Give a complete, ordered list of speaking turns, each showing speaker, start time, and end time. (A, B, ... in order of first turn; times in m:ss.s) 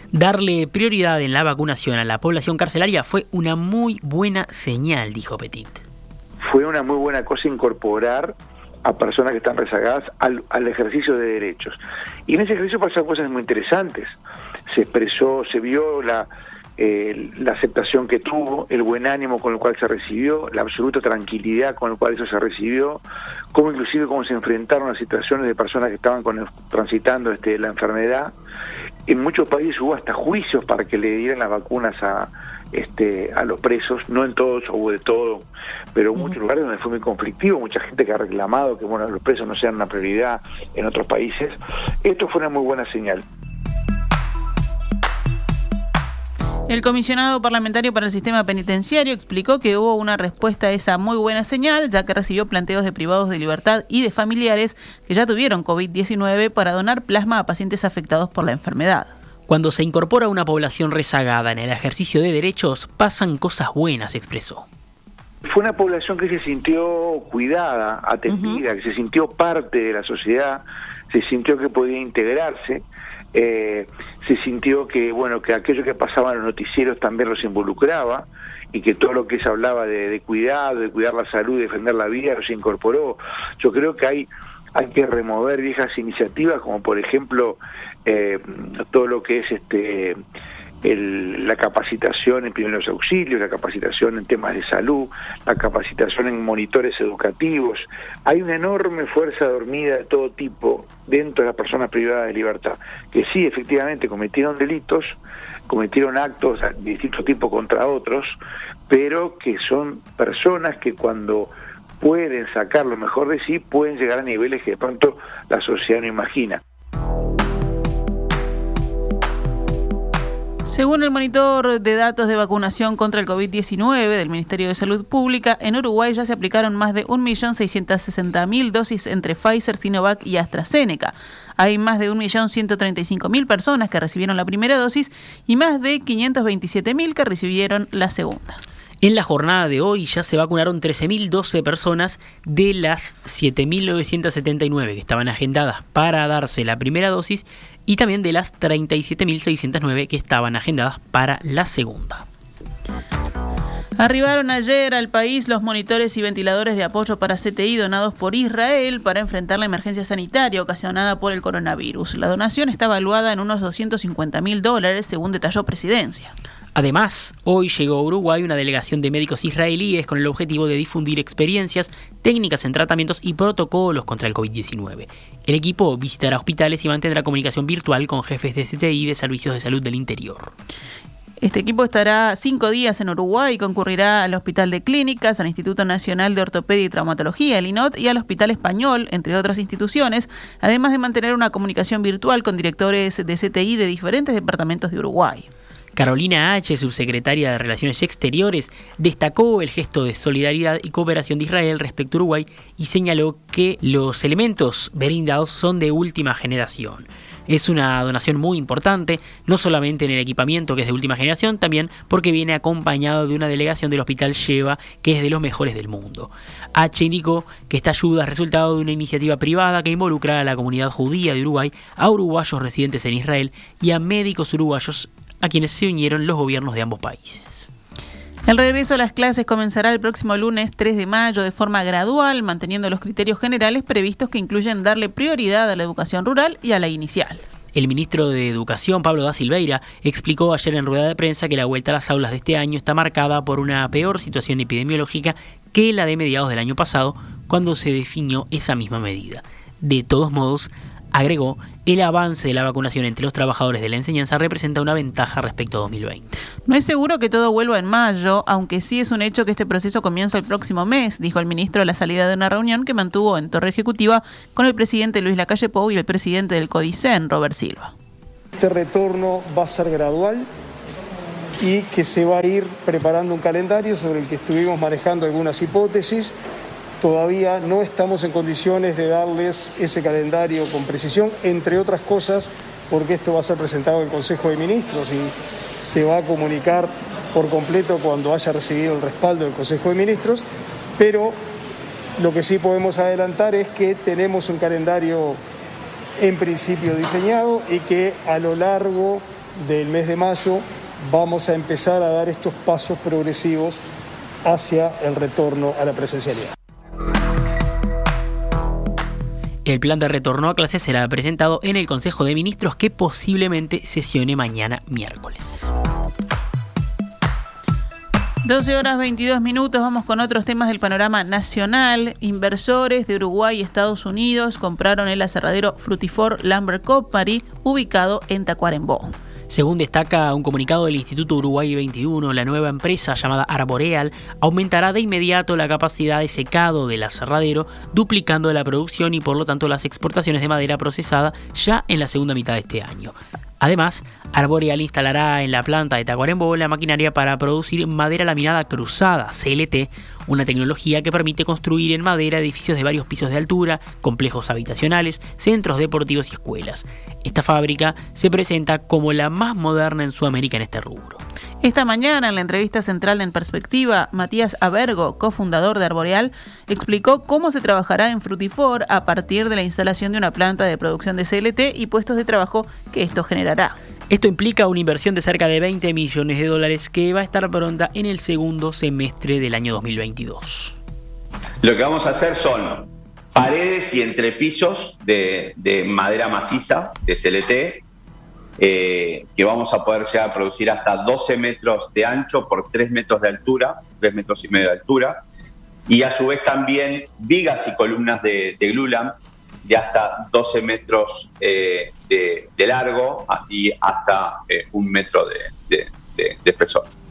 0:00.1-0:05.8 A
0:06.4-0:08.3 B
0:08.8-0:11.8 B
0:12.3-0:14.1 B
0:14.7-0:16.3 B
0:16.8-0:23.0 B
0:23.5-0:28.3 B
0:29.1-0:35.4 B
0:35.9-0:43.2 B
0:46.7-0:59.1 C
0:59.5-1:04.6 A
1:05.4-1:12.8 B
1:13.3-1:30.1 B
1:30.8-1:45.1 B
1:45.7-1:48.3 B
1:48.9-1:56.6 B
2:00.6-2:18.6 C
2:19.0-2:32.2 A
2:34.0-2:46.3 C
2:46.7-3:00.5 A
3:01.4-3:15.5 C
3:16.0-3:47.7 A
3:48.5-3:57.4 C
3:57.7-4:16.3 A
4:16.6-4:27.9 C
4:28.6-4:30.5 D
4:31.6-4:36.3 D
4:37.0-4:50.4 D
4:51.0-4:51.3 D
4:52.2-4:55.4 D
4:56.2-5:03.8 D
5:04.4-5:06.5 D
5:09.6-5:15.7 A
5:18.4-5:29.1 C
5:29.5-6:01.2 A
6:01.6-6:13.8 C
6:14.1-6:20.8 A
6:21.6-6:27.8 E
6:28.6-6:35.2 E
6:35.9-6:39.1 E
6:39.6-6:46.8 E